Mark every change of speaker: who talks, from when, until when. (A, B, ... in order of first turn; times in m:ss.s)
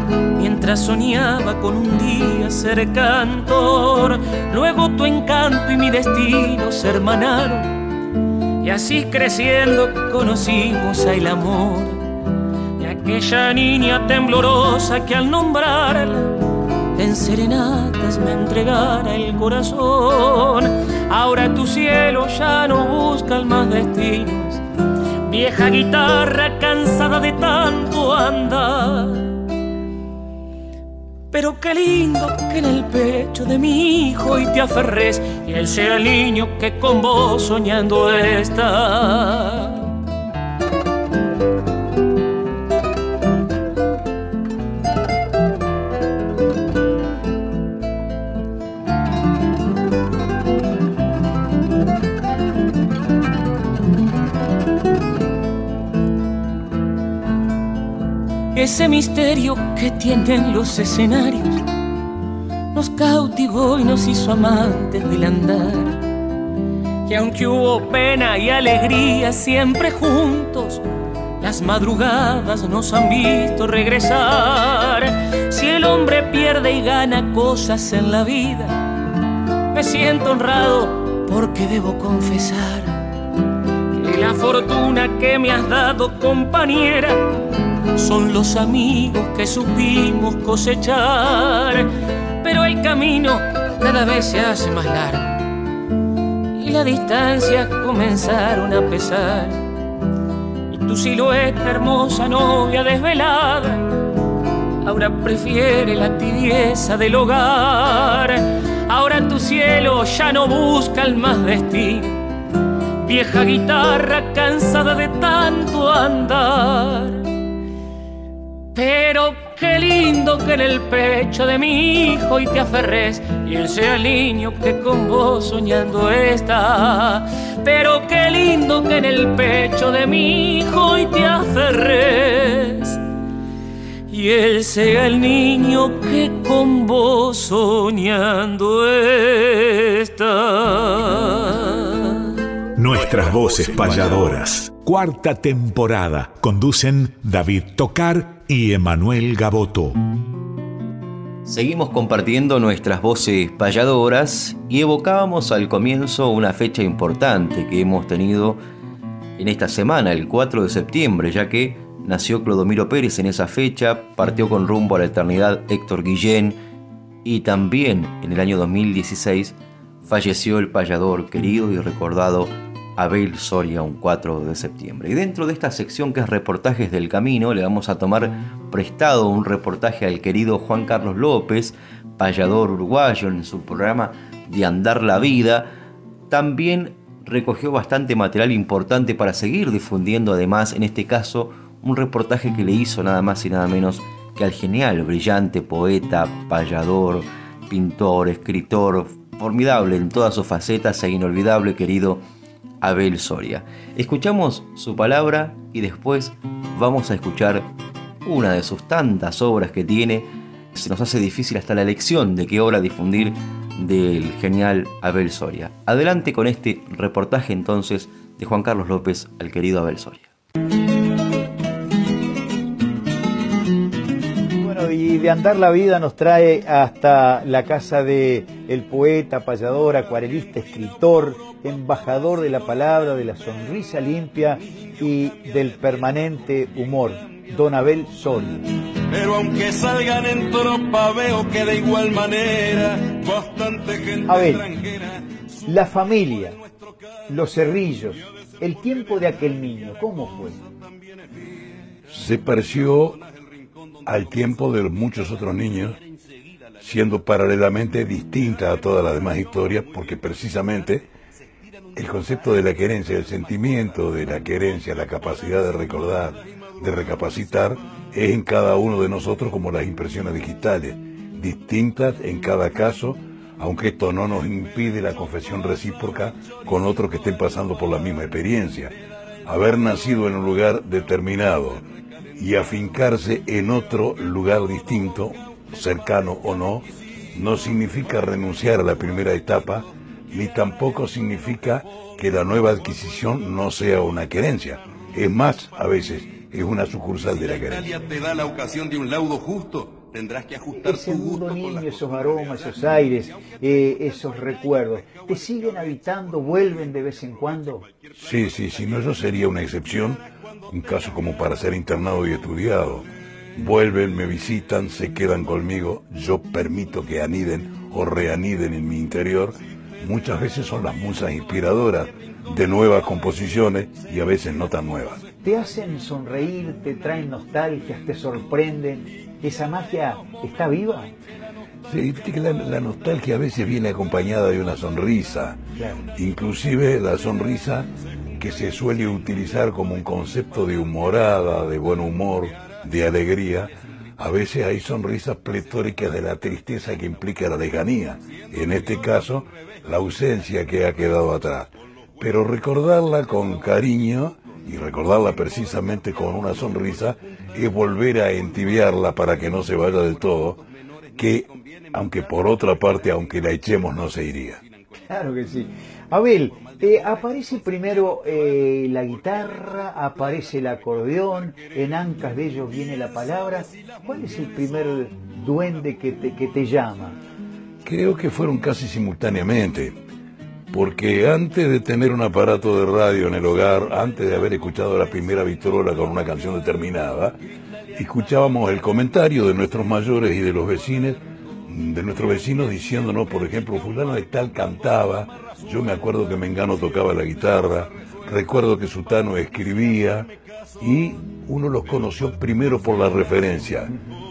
0:00.4-0:07.7 A
0:08.6-0:12.0 A
0:12.8-0:16.4 A
0:16.9-0:24.6 A
0:25.2-0:29.3 A
0:31.3-0:39.9 A
0:58.5-1:01.6 A
1:02.7-1:06.0 A
1:07.0-1:10.8 A
1:11.4-1:18.8 A
1:19.7-1:23.0 A
1:23.9-1:27.2 A
1:28.0-1:31.8 A
1:32.4-1:35.4 A
1:36.5-1:39.6 A
1:40.7-1:43.9 A
1:44.8-1:52.2 A
1:53.0-1:57.3 A
1:58.7-2:13.0 A
2:14.1-2:22.3 A
2:22.8-2:30.0 B
2:31.4-2:38.6 C
2:39.4-2:46.6 C
2:47.2-3:05.7 C
3:06.3-3:22.2 C
3:22.8-3:27.7 C
3:28.2-3:40.3 C
3:44.6-3:58.6 D
3:59.1-4:05.2 E
4:04.3-4:04.6 D
4:05.7-4:06.6 D
4:07.3-4:10.6 D
4:12.1-4:13.2 F
4:14.0-4:16.0 F
4:16.8-4:21.0 F
4:21.9-4:38.9 F
4:39.4-4:41.8 F
4:42.4-4:57.9 F
4:57.2-5:02.3 E
5:00.8-5:07.9 D
5:08.2-5:25.2 F
5:25.4-5:31.1 D
5:31.9-5:35.6 F
5:35.8-5:36.0 D
5:36.2-5:37.9 F
5:38.4-6:00.6 F
6:01.2-6:04.6 F
6:05.1-6:17.2 D
6:17.8-6:20.0 F
6:20.7-6:27.4 F
6:27.9-6:43.9 F